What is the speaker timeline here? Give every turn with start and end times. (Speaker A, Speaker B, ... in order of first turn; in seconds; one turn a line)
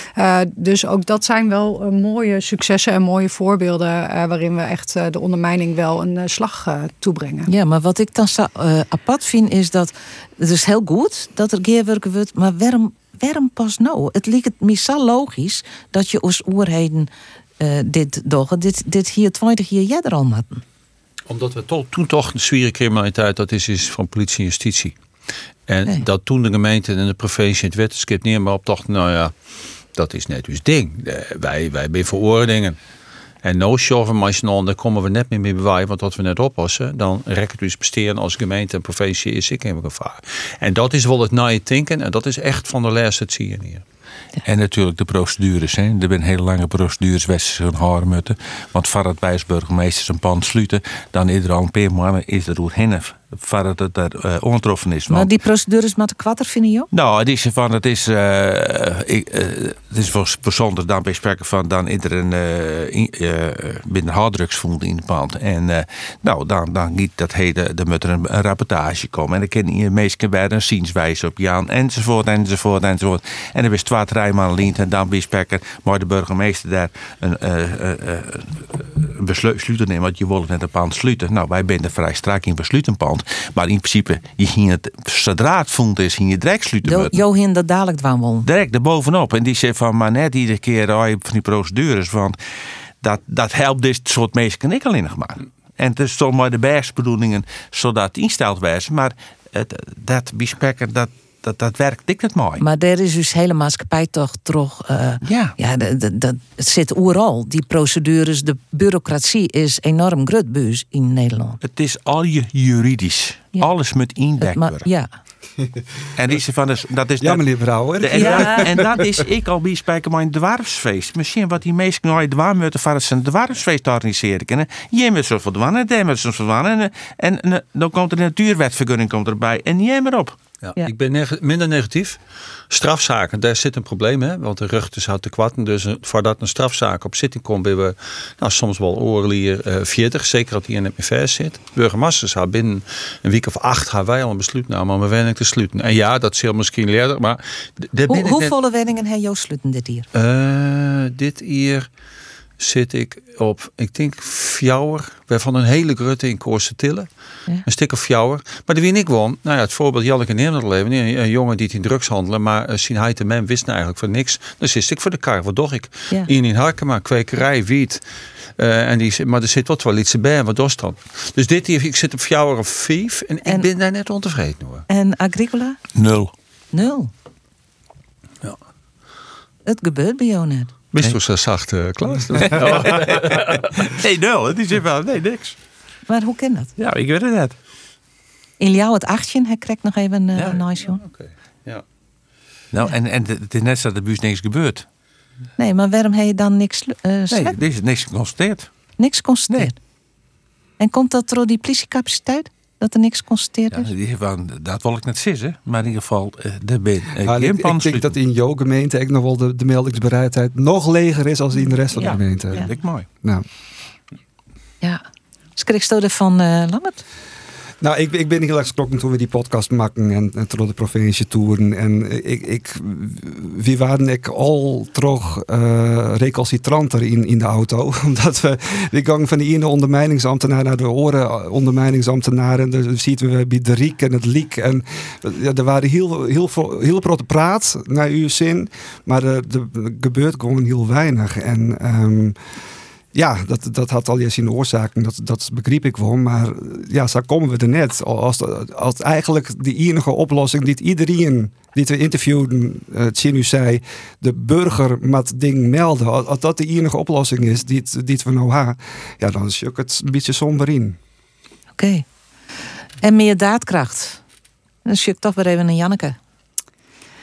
Speaker A: 0.1-7.5
Speaker B: 7.5-20.6
Speaker C: 21.3-25.0
Speaker C: 25.7-29.3
Speaker C: 29.9-32.8
Speaker C: 33.4-43.8
Speaker D: 44.4-55.3
Speaker B: 55.1-56.9
Speaker D: 56.9-87.2
Speaker B: 86.8-88.5
Speaker D: 88.4-92.4
Speaker D: 93.0-102.6
Speaker B: 102.6-111.6
Speaker D: 105.2-105.5
Speaker D: 111.6-114.9
Speaker B: 114.4-115.1
Speaker D: 116.2-130.4
Speaker E: 117.2-119.2
Speaker B: 118.2-118.6
Speaker C: 130.6-132.2
Speaker C: 132.7-148.5
Speaker B: 148.1-150.1
Speaker C: 150.1-151.9
Speaker C: 152.6-157.1
Speaker C: 157.7-168.0
Speaker C: 168.6-174.9
Speaker B: 174.9-175.8
Speaker D: 175.9-176.3
Speaker B: 176.7-177.1
Speaker B: 179.7-180.7
Speaker C: 180.9-183.8
Speaker D: 182.4-185.6
Speaker B: 186.1-186.7
Speaker D: 186.8-187.6
Speaker B: 188.6-191.0
Speaker C: 190.4-191.8
Speaker D: 192.7-194.8
Speaker B: 195.6-197.6
Speaker D: 197.3-198.7
Speaker B: 199.0-199.7
Speaker B: 200.8-203.9
Speaker D: 203.7-208.1
Speaker E: 207.2-212.7
Speaker B: 211.9-212.7
Speaker D: 212.5-213.1
Speaker B: 215.6-217.0
Speaker E: 217.8-242.3
Speaker E: 243.1-261.0
Speaker B: 261.8-262.0
Speaker B: 263.0-264.2
Speaker B: 264.9-266.2